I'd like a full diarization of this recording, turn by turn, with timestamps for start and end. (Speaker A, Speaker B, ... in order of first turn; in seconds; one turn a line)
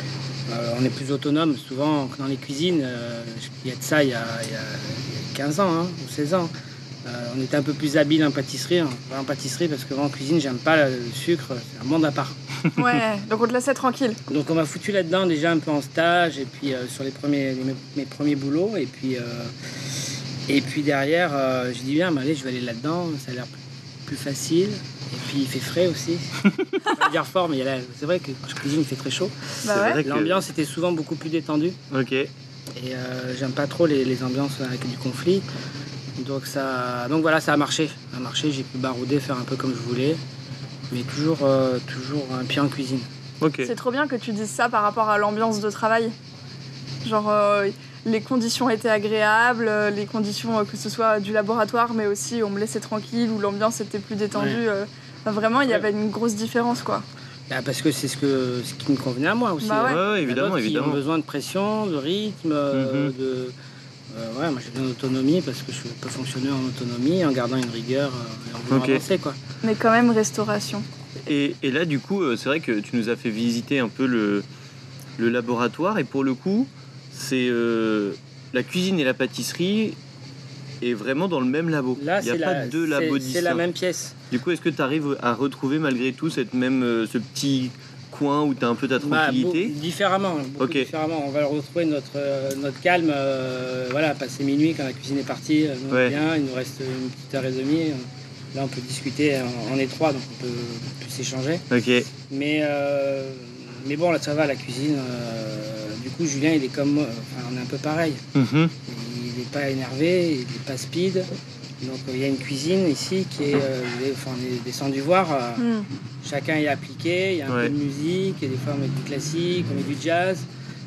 Speaker A: 0.5-6.5
Speaker A: 7.0-12.4
Speaker B: 12.7-14.2
Speaker A: 14.3-19.5
Speaker A: 20.5-23.5
Speaker A: 24.1-31.8
Speaker B: 29.6-30.0
Speaker C: 29.7-30.4
Speaker C: 31.9-32.3
Speaker A: 32.7-35.4
Speaker A: 36.2-40.2
Speaker A: 40.9-43.1
Speaker C: 43.4-43.7
Speaker B: 43.6-46.1
Speaker B: 47.0-57.0
Speaker A: 54.3-54.6
Speaker A: 57.5-63.5
Speaker B: 59.6-60.0
Speaker C: 59.8-61.0
Speaker C: 62.7-63.1
Speaker A: 64.1-69.4
Speaker C: 68.7-69.0
Speaker B: 69.6-70.8
Speaker C: 71.3-74.5
Speaker C: 75.2-80.0
Speaker C: 80.8-83.6
Speaker A: 82.0-84.2
Speaker C: 84.3-89.7
Speaker A: 89.0-108.2
Speaker C: 90.6-90.9
Speaker C: 95.9-96.2
Speaker C: 101.7-102.1
Speaker C: 108.3-108.7
Speaker A: 108.8-111.3
Speaker A: 111.8-115.7
Speaker B: 115.6-115.9
Speaker A: 116.2-120.5
Speaker C: 117.5-117.7